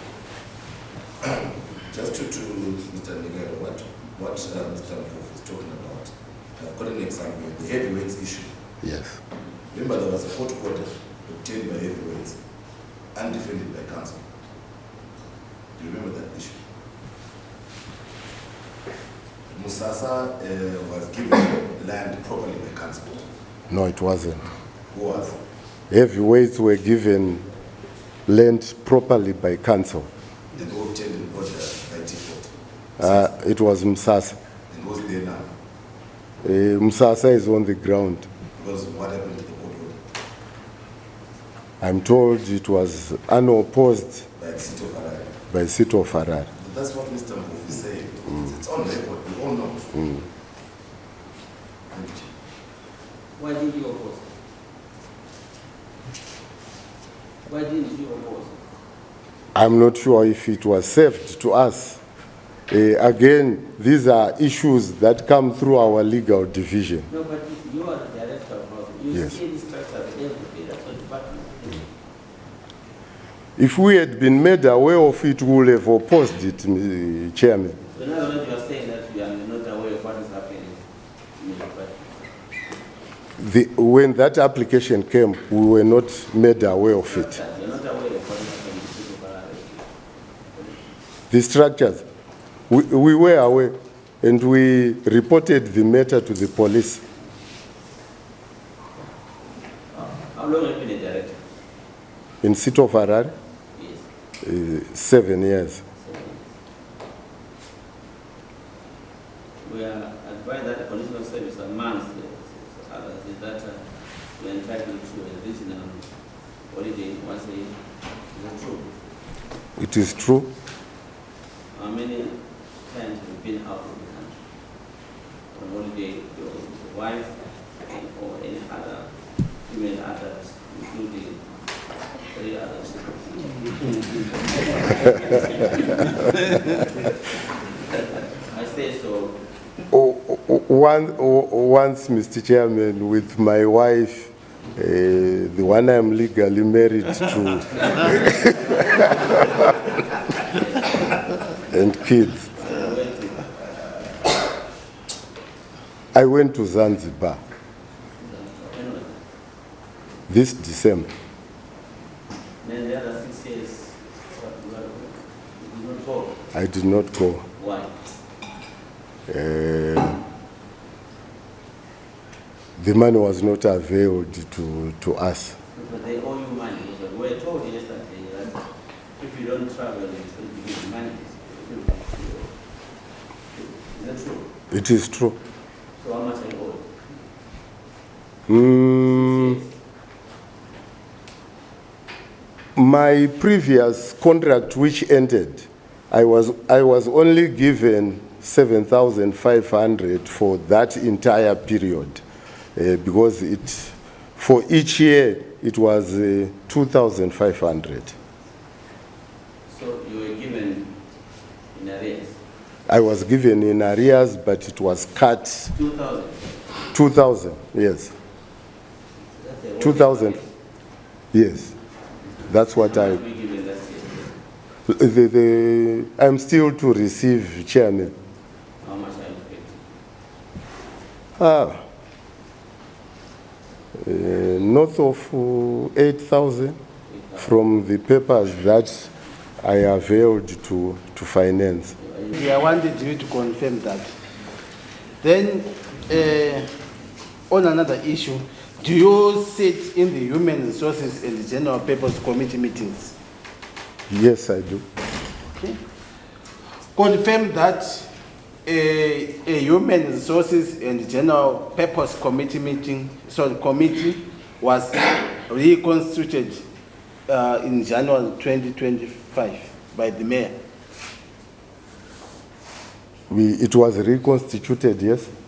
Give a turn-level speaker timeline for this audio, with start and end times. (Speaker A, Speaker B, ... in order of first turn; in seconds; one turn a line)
Speaker A: 1.9-8.5
Speaker B: 8.8-9.2
Speaker A: 9.7-12.4
Speaker A: 13.2-14.2
Speaker A: 15.8-16.6
Speaker A: 19.5-23.3
Speaker B: 23.7-24.4
Speaker A: 24.9-25.4
Speaker B: 25.9-27.4
Speaker B: 28.3-30.1
Speaker A: 30.6-32.5
Speaker B: 33.0-34.4
Speaker A: 34.7-35.5
Speaker B: 36.4-38.3
Speaker A: 38.6-40.0
Speaker B: 41.8-44.3
Speaker A: 44.4-45.4
Speaker B: 45.5-46.5
Speaker A: 46.6-49.9
Speaker A: 51.9-52.3
Speaker C: 53.4-54.3
Speaker C: 57.5-58.6
Speaker B: 59.5-62.0
Speaker B: 62.7-67.1
Speaker C: 67.1-71.9
Speaker B: 73.6-77.8
Speaker C: 77.9-80.8
Speaker C: 81.3-82.1
Speaker B: 83.4-87.4
Speaker C: 87.0-89.8
Speaker B: 91.3-92.0
Speaker B: 92.7-97.0
Speaker C: 100.1-101.4
Speaker B: 102.4-103.3
Speaker C: 103.7-104.0
Speaker B: 104.4-105.8
Speaker C: 106.0-106.4
Speaker C: 109.6-113.8
Speaker C: 114.4-116.1
Speaker C: 116.7-117.8
Speaker C: 118.3-118.9
Speaker B: 119.8-120.5
Speaker C: 121.7-124.4
Speaker C: 125.5-129.1
Speaker C: 129.7-131.4
Speaker C: 132.3-136.9
Speaker C: 137.9-139.4
Speaker B: 139.9-148.4
Speaker C: 149.2-151.5
Speaker B: 151.7-152.4
Speaker C: 152.4-153.6
Speaker B: 156.1-157.4
Speaker C: 158.2-159.2
Speaker B: 160.3-161.1
Speaker C: 162.6-166.5
Speaker B: 166.5-167.4
Speaker C: 167.6-167.9
Speaker B: 169.3-170.2
Speaker B: 172.8-175.6
Speaker C: 175.8-178.7
Speaker C: 179.2-182.5
Speaker C: 183.5-184.5
Speaker B: 184.7-185.4
Speaker C: 186.0-186.9
Speaker B: 188.5-189.6
Speaker C: 189.1-189.7
Speaker B: 192.8-202.2
Speaker B: 202.8-208.2
Speaker C: 209.7-210.9
Speaker C: 211.7-212.4
Speaker B: 212.9-215.7
Speaker C: 215.7-216.8
Speaker B: 216.9-218.1
Speaker C: 219.4-220.5
Speaker B: 219.8-220.4
Speaker B: 221.3-221.7
Speaker C: 222.4-224.4
Speaker B: 222.5-223.2
Speaker B: 224.9-228.1
Speaker C: 228.8-229.8
Speaker B: 231.4-231.8
Speaker B: 234.0-236.8
Speaker C: 237.1-237.6
Speaker B: 237.4-239.1
Speaker B: 239.6-242.0
Speaker C: 242.0-242.5
Speaker D: 242.3-244.1
Speaker D: 245.2-246.7
Speaker D: 247.5-253.1
Speaker B: 254.1-254.8
Speaker D: 256.9-258.1
Speaker D: 258.7-266.6
Speaker D: 267.3-270.6
Speaker B: 273.3-275.3